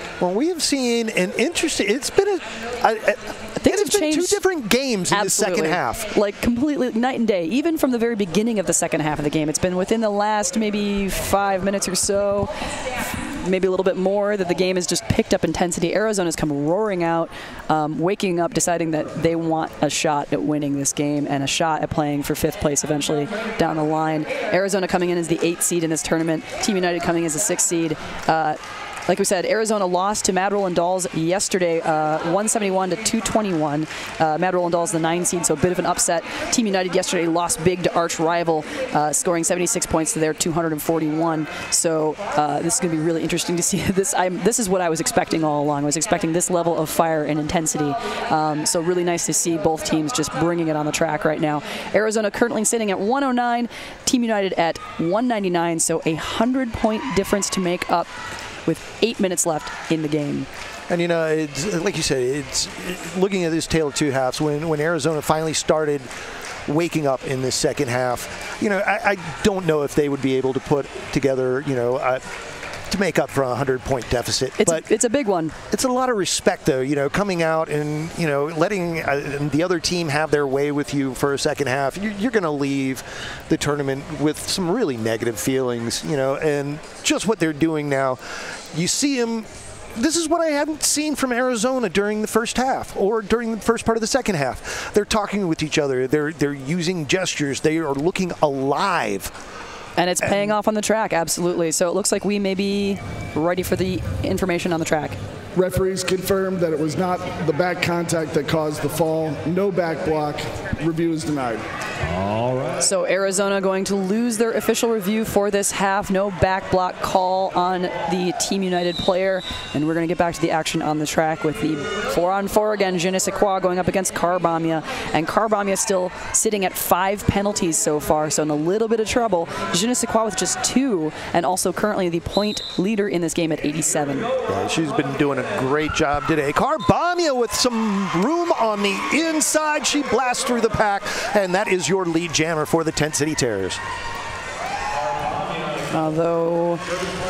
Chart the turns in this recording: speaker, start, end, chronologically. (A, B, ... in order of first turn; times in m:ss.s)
0:00.2-0:06.1 A
0:03.6-0:04.4 B
0:05.1-0:12.5 B
0:13.0-0:58.1 B
0:58.7-1:00.5 B
1:00.9-1:06.1 A
1:06.7-1:12.2 A
1:12.9-1:14.9 A
1:14.6-1:15.6 B
1:15.7-1:39.3 A
1:40.0-1:45.2 B
1:45.6-1:51.7 C
1:52.4-1:52.7 C
1:52.8-2:14.3 B
2:14.5-2:23.8 A
2:25.9-2:26.8 B